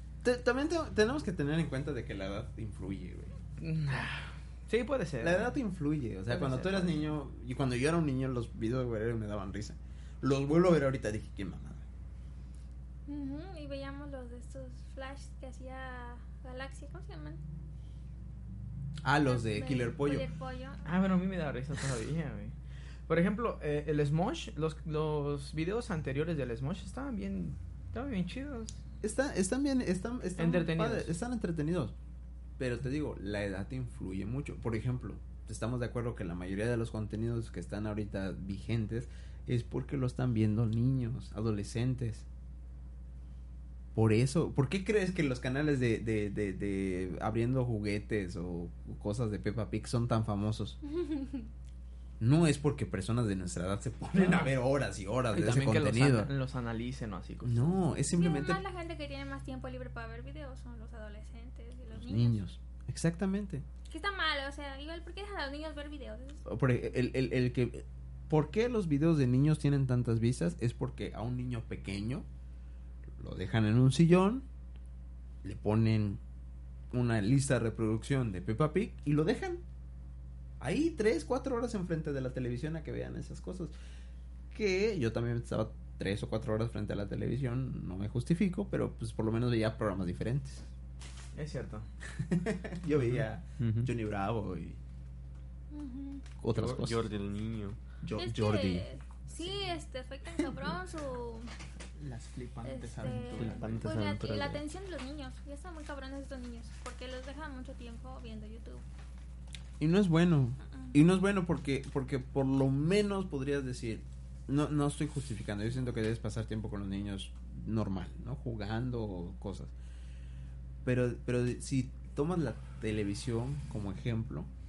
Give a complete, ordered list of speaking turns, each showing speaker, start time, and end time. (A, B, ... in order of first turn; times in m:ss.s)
0:00.2-0:03.3 A
0:03.6-0:05.6 B
0:05.2-0:11.8 A
0:06.3-0:07.1 B
0:13.1-0:17.4 C
0:19.0-0:20.3 A
0:19.2-0:20.8 C
0:20.8-0:22.5 B
0:23.1-0:28.8 B
0:29.0-0:31.9 A
0:30.4-0:31.1 B
0:32.6-0:42.2 A
0:43.9-0:50.8 A
0:50.9-0:51.5 C
0:52.2-0:56.3 A
0:54.1-0:54.6 B
0:55.3-0:57.8 B
0:57.4-0:58.6 A
0:58.1-1:02.4 C
1:02.0-1:03.6 A
1:03.9-1:06.4 C
1:06.4-1:12.3 A
1:13.2-1:14.4 A
1:15.4-1:16.2 A
1:16.9-1:19.6 A
1:20.6-1:23.7 A
1:24.5-1:30.7 A
1:31.3-1:31.9 B
1:32.2-1:34.8 A
1:33.6-1:33.9 D
1:35.7-1:36.2 C
1:36.4-1:37.0 A
1:36.5-1:37.8 D
1:38.0-1:38.8 A
1:38.2-1:41.5 C
1:42.0-1:43.8 B
1:42.6-1:48.8 C
1:43.0-1:44.6 D
1:49.8-1:59.7 A
2:00.8-2:04.5 A